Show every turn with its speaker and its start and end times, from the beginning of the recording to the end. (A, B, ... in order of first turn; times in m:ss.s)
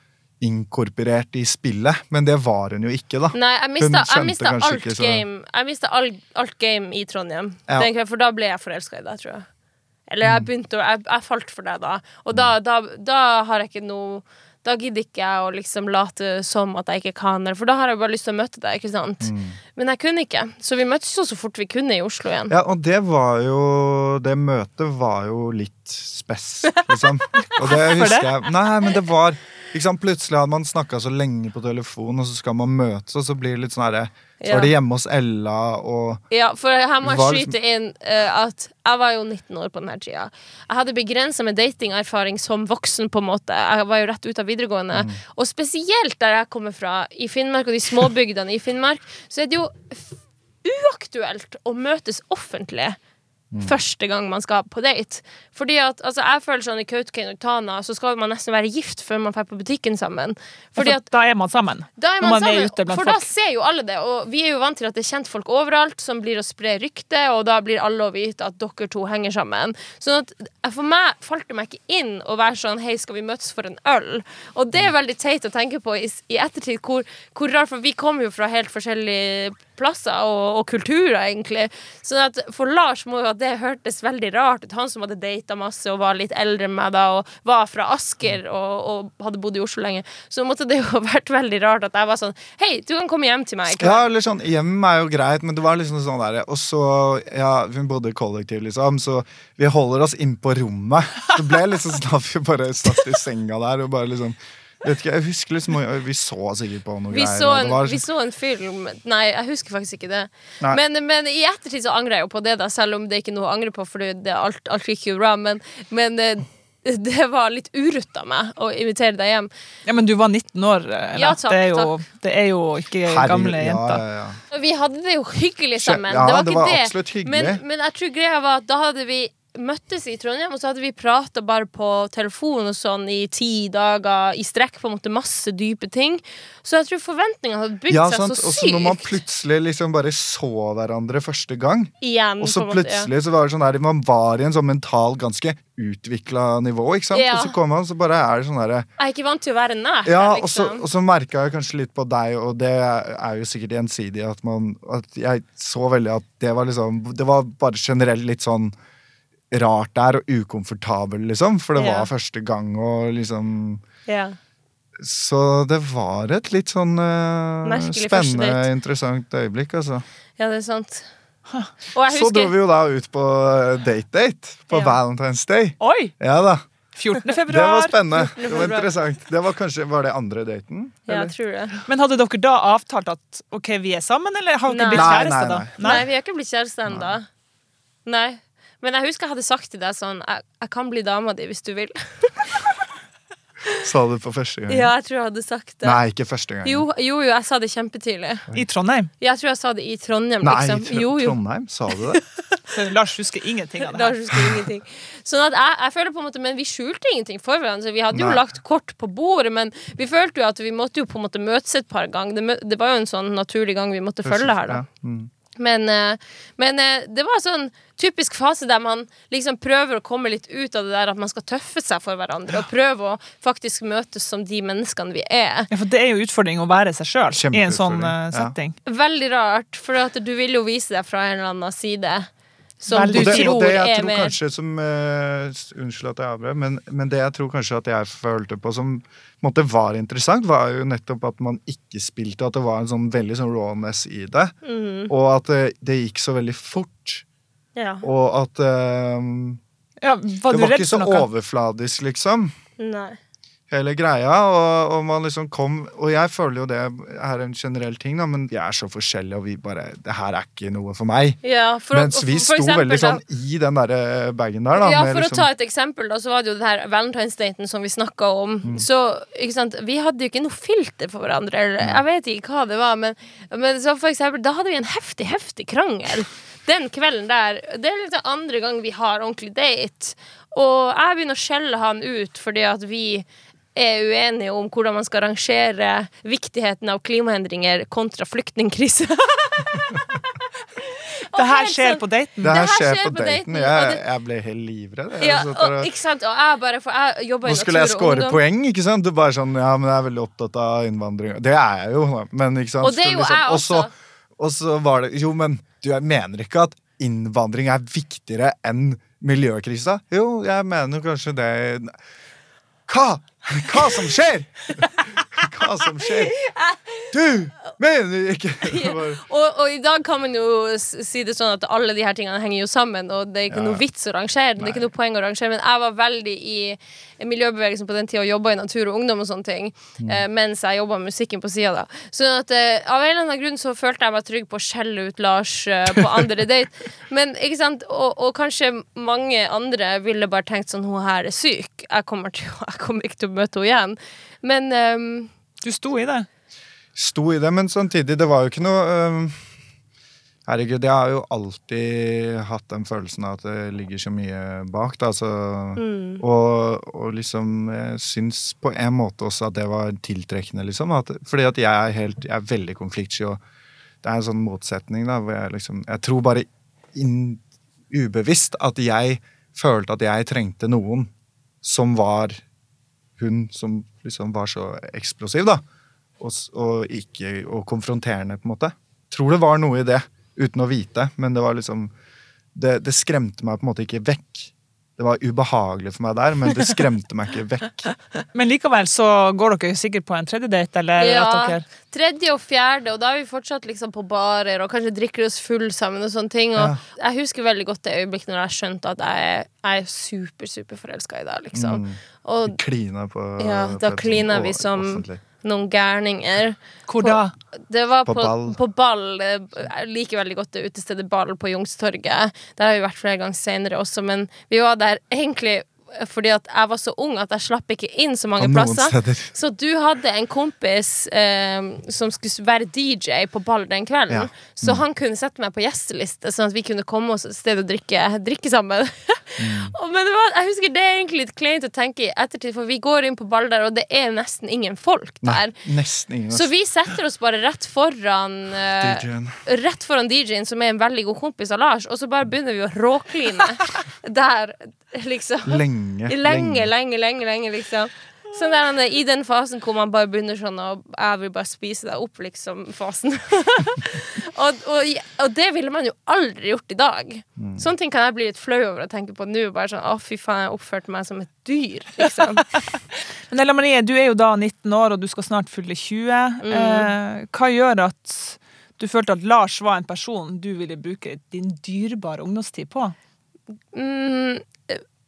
0:00.4-0:05.2 A
0:03.3-0:09.4 B
0:10.1-0:22.5 B
0:19.2-0:19.6 A
0:22.5-0:36.2 A
0:27.4-0:28.4 C
0:34.4-0:34.7 B
0:36.3-0:53.0 B
0:37.0-0:37.5 A
0:44.9-0:45.2 A
0:53.6-1:01.0 B
1:00.8-1:03.3 C
1:02.0-1:34.0 B
1:33.7-1:48.0 A
1:47.1-1:59.5 B
1:59.8-2:04.0 C
2:01.1-2:01.9 B
2:03.1-2:04.4 A
2:04.5-2:19.2 B
2:05.8-2:07.6 A
2:17.9-2:28.9 A
2:22.0-2:23.1 B
2:27.1-2:27.5 B
2:29.0-2:30.8 B
2:30.0-2:38.7 A
2:39.5-2:43.8 A
2:41.8-2:42.1 B
2:44.1-2:44.4 B
2:45.0-2:50.0 A
2:47.6-2:48.7 B
2:50.4-2:51.1 B
2:51.9-2:52.5 B
2:52.1-2:56.6 A
2:54.7-2:55.0 B
2:55.8-2:56.1 C
2:57.0-2:58.7 C
2:57.4-3:01.3 A
2:58.4-2:58.9 B
3:01.1-3:01.8 B
3:01.9-3:06.0 C
3:04.7-3:05.2 B
3:04.9-3:06.0 A
3:05.8-3:07.2 B
3:06.9-3:07.2 A
3:08.0-3:12.6 B
3:13.8-3:14.9 A
3:14.7-3:16.0 B
3:15.8-3:16.8 A
3:16.6-3:18.4 B
3:18.5-3:19.1 C
3:19.2-3:21.4 B
3:20.4-3:22.2 A
3:22.7-3:24.1 C
3:23.9-3:34.8 B
3:28.1-3:28.4 A
3:34.2-3:35.3 A
3:35.6-3:45.7 B
3:45.7-3:48.8 C
3:47.3-3:48.5 A
3:48.8-3:52.3 B
3:52.8-3:54.3 B
3:52.9-3:53.6 C
3:53.1-4:04.6 A
4:04.6-4:05.1 B
4:05.1-4:07.2 A
4:07.8-4:08.0 B
4:08.0-4:09.6 A
4:10.0-4:11.3 C
4:10.5-4:12.5 A
4:12.8-4:13.2 B
4:13.7-4:21.4 A
4:21.4-4:23.2 B
4:21.9-4:25.5 A
4:24.7-4:54.0 B
4:51.3-4:52.6 C
4:52.4-4:55.9 A
4:55.2-4:58.4 B
4:57.4-5:11.9 A
5:02.8-5:03.9 B
5:12.9-5:16.4 A
5:16.4-5:17.1 B
5:17.1-5:19.2 A
5:18.6-5:45.3 B
5:23.5-5:23.8 A
5:45.6-5:46.3 C
5:46.9-5:49.4 A
5:50.4-6:03.4 A
5:55.8-5:56.2 B
6:04.0-6:11.1 A
6:11.6-6:12.4 A
6:13.2-6:15.6 A
6:16.2-6:21.9 A
6:22.5-6:27.9 A
6:28.3-6:31.6 C
6:31.0-6:42.6 B
6:36.6-6:36.8 A
6:41.5-6:45.2 A
6:43.4-7:15.6 B
6:46.9-6:47.3 C
6:48.0-6:48.6 A
6:58.4-6:59.3 A
7:04.1-7:04.8 A
7:09.4-7:09.7 A
7:15.2-7:16.5 A
7:16.3-7:42.5 B
7:18.8-7:19.4 A
7:25.4-7:26.7 A
7:37.4-7:37.6 A
7:43.3-7:52.9 C
7:46.4-7:46.9 B
7:53.7-7:54.8 B